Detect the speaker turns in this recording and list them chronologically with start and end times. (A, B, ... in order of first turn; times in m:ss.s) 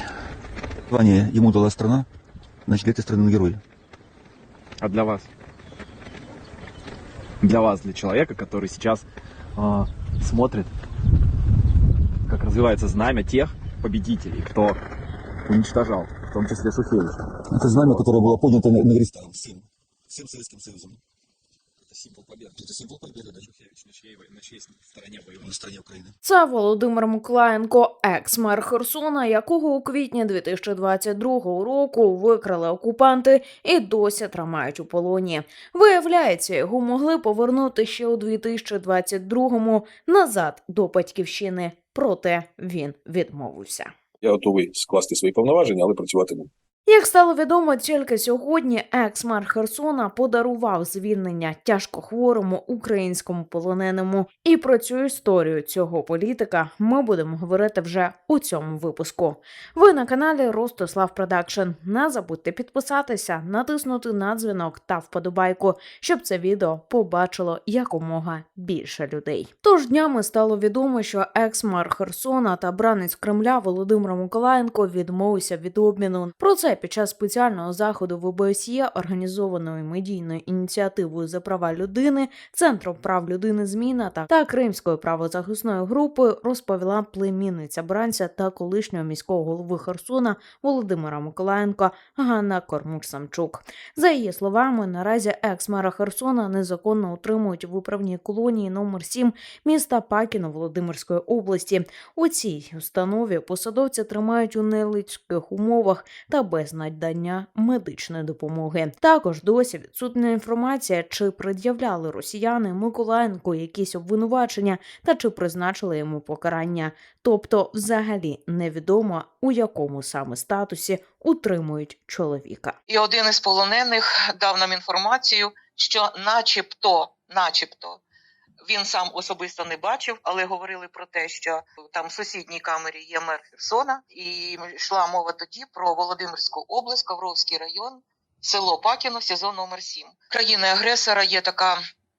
0:00.9-0:02.1 A
0:02.6-0:03.6 A
0:04.8-0:05.3 B
0:07.4-0:10.7 B
0:12.3-0:14.8 B
0:15.4-0:17.3 B
0:17.4-0:21.0 A
0:21.9-0:22.7 B
0:22.6-0:23.3 A
0:23.3-0:25.5 B
0:25.4-0:26.1 A
0:26.2-0:43.9 C
0:44.2-0:46.5 D
0:46.9-2:02.8 C
2:02.9-2:08.0 E
2:08.6-2:21.8 E